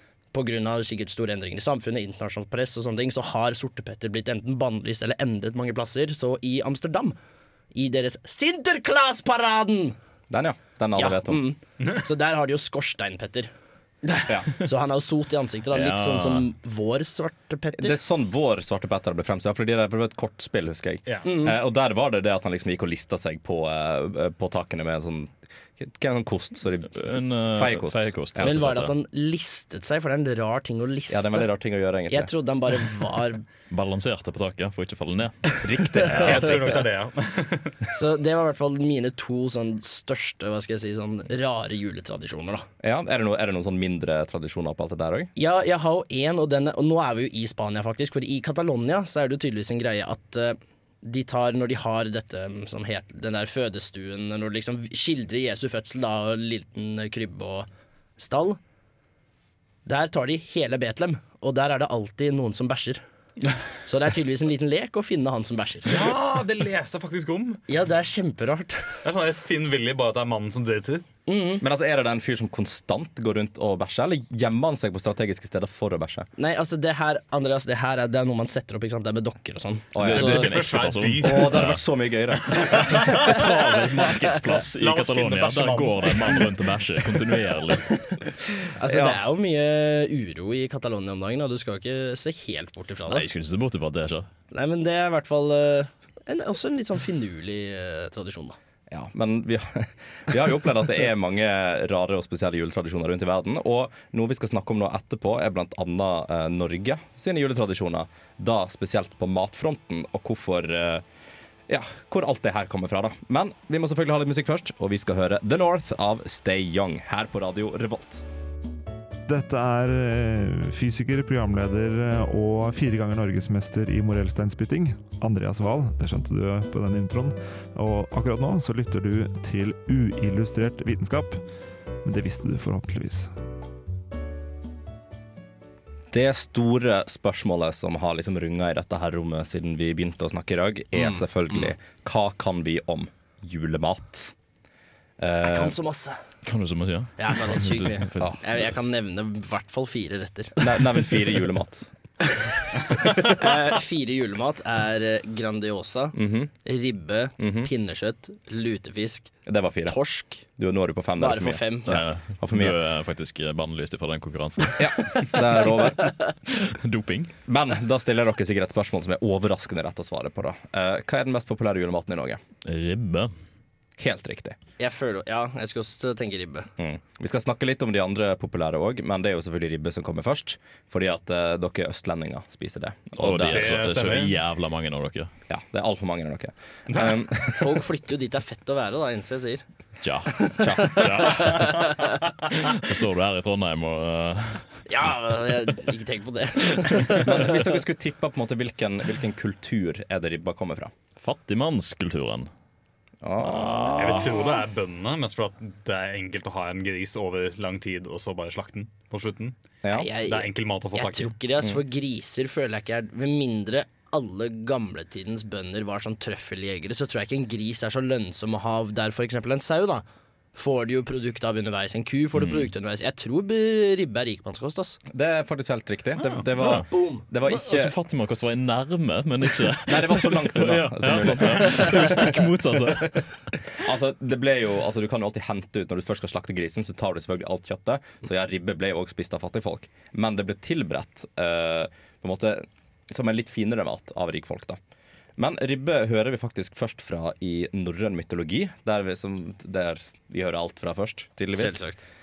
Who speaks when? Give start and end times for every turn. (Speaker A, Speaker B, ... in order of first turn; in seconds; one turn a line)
Speaker A: 0.3-7.2
Speaker A: 7.7-9.9
Speaker B: 10.3-11.4
Speaker A: 10.9-13.5
Speaker A: 14.5-18.0
Speaker C: 15.7-16.5
Speaker B: 17.7-28.5
Speaker A: 21.2-21.6
Speaker C: 26.9-28.9
Speaker A: 28.4-31.5
Speaker B: 31.1-32.3
Speaker A: 32.1-33.4
Speaker C: 33.7-35.5
Speaker B: 35.6-36.8
Speaker C: 36.1-36.5
Speaker D: 36.1-37.8
Speaker A: 37.9-42.6
Speaker B: 42.8-45.3
Speaker A: 45.4-58.6
Speaker A: 59.9-63.0
Speaker A: 63.9-66.0
Speaker D: 65.9-67.6
Speaker A: 67.7-68.8
Speaker D: 69.0-71.0
Speaker A: 71.3-71.6
Speaker B: 71.6-76.3
Speaker A: 76.4-80.4
Speaker B: 79.9-83.0
Speaker C: 80.0-81.8
Speaker D: 80.1-81.6
Speaker C: 82.6-87.9
Speaker D: 82.7-83.3
Speaker D: 84.8-86.5
Speaker A: 88.7-93.2
Speaker B: 88.8-89.2
Speaker C: 93.1-94.3
Speaker A: 94.5-98.6
Speaker B: 98.9-111.0
Speaker B: 111.7-118.2
Speaker E: 119.3-131.4
Speaker E: 132.0-133.3
Speaker B: 136.1-144.3
Speaker A: 140.9-141.7
Speaker B: 145.2-145.7
Speaker A: 145.4-146.2
Speaker C: 146.4-148.4
Speaker A: 147.2-150.6
Speaker B: 150.6-151.9
Speaker A: 152.3-159.3
Speaker B: 156.1-156.5
Speaker B: 157.4-157.7
Speaker B: 159.4-160.0
Speaker A: 159.8-160.4
Speaker B: 160.6-162.8
Speaker A: 161.2-162.0
Speaker C: 161.9-164.9
Speaker B: 164.8-166.1
Speaker C: 166.5-167.3
Speaker B: 167.5-172.4
Speaker C: 172.6-173.3
Speaker B: 174.0-174.6
Speaker A: 174.8-176.7
Speaker B: 176.8-183.8
Speaker C: 183.2-185.3
Speaker D: 183.4-184.4
Speaker B: 185.5-187.8
Speaker A: 187.4-189.6
Speaker C: 190.0-192.0
Speaker A: 190.5-192.1
Speaker B: 190.6-191.4
Speaker C: 192.5-194.8
Speaker A: 194.9-197.6
Speaker B: 197.1-200.9
Speaker C: 201.2-202.5
Speaker B: 203.2-204.4
Speaker C: 203.5-204.3
Speaker D: 203.9-209.6
Speaker B: 209.8-210.1
Speaker A: 209.9-225.0
Speaker D: 210.2-211.3
Speaker C: 222.3-222.7
Speaker B: 225.1-227.9
Speaker C: 226.6-226.8
Speaker A: 226.6-227.2
Speaker C: 227.4-233.2
Speaker B: 229.8-233.2
Speaker B: 233.7-244.8
Speaker B: 245.4-251.8
Speaker A: 251.5-252.0